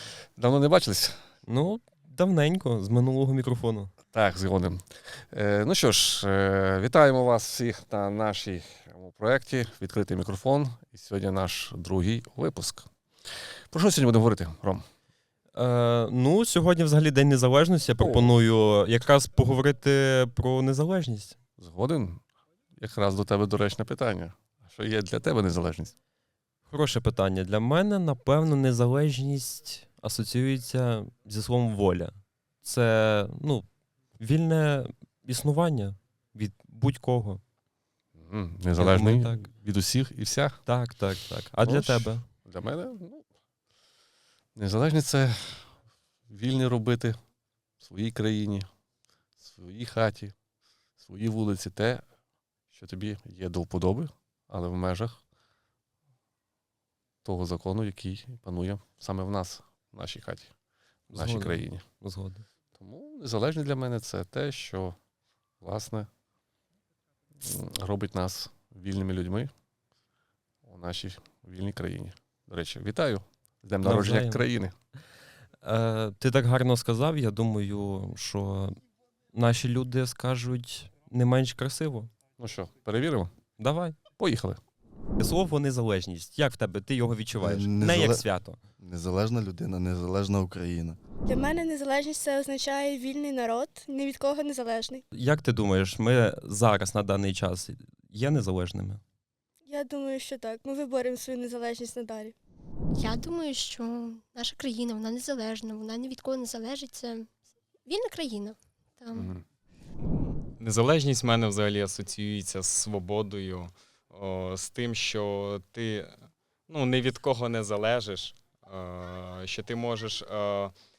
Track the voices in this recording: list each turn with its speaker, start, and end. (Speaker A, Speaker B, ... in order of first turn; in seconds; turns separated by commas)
Speaker A: 0.3-1.1, Speaker B: 1.4-3.9, Speaker A: 4.1-12.9, Speaker A: 13.7-14.8, Speaker B: 15.5-21.4, Speaker A: 18.0-18.3, Speaker A: 21.6-22.2, Speaker A: 22.8-25.9, Speaker B: 26.7-37.4, Speaker A: 38.1-40.6, Speaker B: 38.8-39.5, Speaker B: 40.6-42.2, Speaker A: 41.6-43.2, Speaker A: 44.5-45.7, Speaker A: 46.3-47.1, Speaker A: 47.8-48.7, Speaker A: 49.4-50.3, Speaker A: 51.0-52.0, Speaker A: 52.7-55.2, Speaker A: 57.2-60.5, Speaker B: 61.1-62.4, Speaker A: 61.1-61.8, Speaker A: 62.8-65.0, Speaker A: 65.6-66.1, Speaker A: 67.4-69.5, Speaker A: 70.6-74.7, Speaker B: 73.8-74.5, Speaker B: 75.6-78.7, Speaker B: 79.3-82.1, Speaker A: 82.4-83.3, Speaker B: 83.6-84.0, Speaker A: 84.2-84.6, Speaker B: 85.2-88.6, Speaker C: 87.3-91.0, Speaker D: 91.3-95.0, Speaker B: 95.1-99.0, Speaker D: 99.6-102.3, Speaker E: 102.9-107.3, Speaker E: 107.8-109.3, Speaker A: 109.1-109.4, Speaker F: 110.2-116.1, Speaker F: 116.7-120.7